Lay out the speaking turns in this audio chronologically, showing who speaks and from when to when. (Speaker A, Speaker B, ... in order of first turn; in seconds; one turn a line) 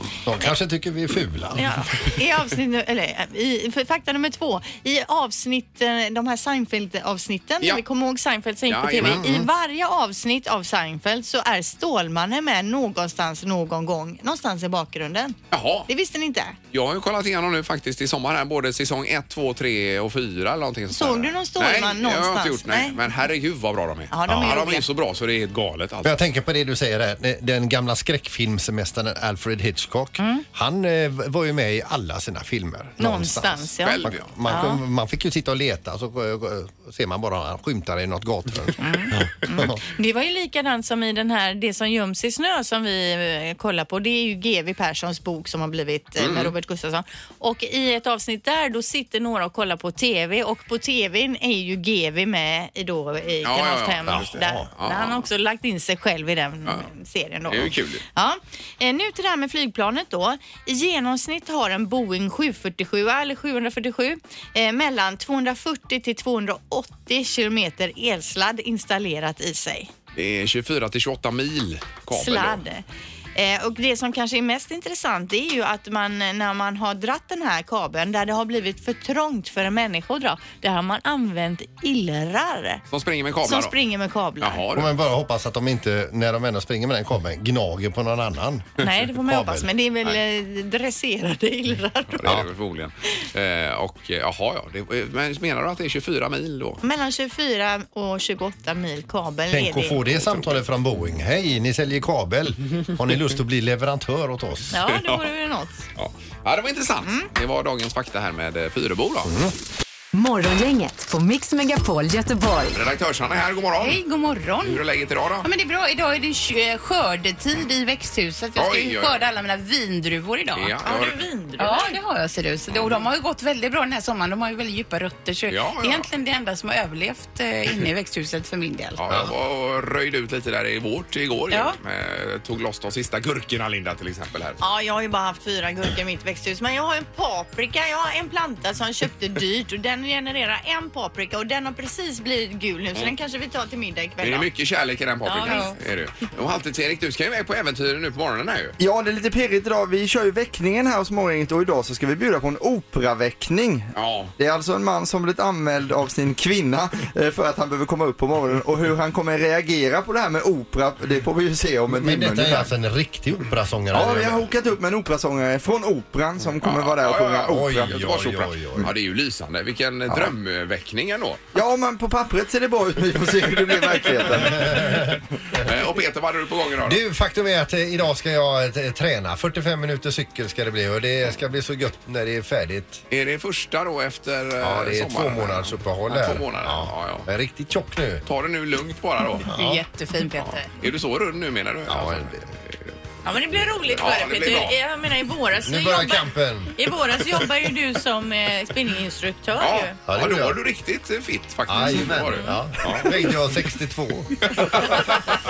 Speaker A: 0.2-1.8
Speaker B: 1.6-15.4
Speaker C: 8.7-9.3
Speaker A: 9.0-9.5
Speaker C: 15.5-15.9
Speaker B: 15.9-16.6
Speaker C: 16.7-26.2
Speaker B: 20.9-23.0
Speaker B: 24.1-24.9
Speaker A: 26.0-39.8
Speaker B: 30.2-30.4
Speaker B: 33.0-34.8
Speaker C: 33.8-34.3
Speaker B: 38.8-69.9
Speaker C: 46.2-46.5
Speaker C: 53.4-55.3
Speaker A: 54.1-54.7
Speaker C: 57.5-58.0
Speaker C: 70.2-72.6
Speaker B: 72.1-82.8
Speaker C: 82.9-83.7
Speaker B: 83.5-84.7
Speaker C: 84.4-84.9
Speaker A: 84.7-89.7
Speaker B: 88.8-92.3
Speaker C: 92.1-96.8
Speaker B: 96.8-100.0
Speaker A: 99.5-104.8
Speaker C: 100.1-100.6
Speaker B: 104.7-105.8
Speaker C: 104.8-105.3
Speaker C: 106.0-109.3
Speaker A: 109.2-109.5
Speaker D: 110.1-112.8
Speaker C: 112.7-114.0
Speaker E: 113.8-114.8
Speaker C: 114.6-115.5
Speaker E: 115.4-120.8
Speaker C: 118.5-119.2
Speaker C: 120.5-121.2
Speaker B: 120.8-122.0
Speaker E: 121.6-129.1
Speaker C: 122.7-123.1
Speaker C: 125.5-126.1
Speaker C: 129.0-134.6
Speaker E: 131.5-131.8
Speaker B: 134.6-144.5
Speaker C: 144.2-148.8
Speaker B: 145.2-145.8
Speaker F: 148.8-162.7
Speaker C: 153.9-154.3
Speaker A: 161.9-164.5
Speaker F: 163.9-168.0
Speaker C: 166.6-171.4
Speaker A: 167.5-168.9
Speaker F: 171.5-174.8
Speaker A: 174.4-175.2
Speaker C: 175.5-177.0
Speaker A: 176.8-183.0
Speaker C: 183.1-187.3
Speaker A: 184.6-188.2
Speaker C: 188.2-189.5
Speaker A: 189.5-189.8
Speaker E: 189.5-190.5
Speaker C: 190.4-192.9
Speaker A: 191.9-192.4
Speaker B: 193.2-199.9
Speaker C: 193.7-194.8
Speaker A: 195.7-196.8
Speaker C: 199.6-203.3
Speaker A: 200.1-200.6
Speaker A: 201.7-204.7
Speaker B: 202.0-202.6
Speaker C: 204.4-205.2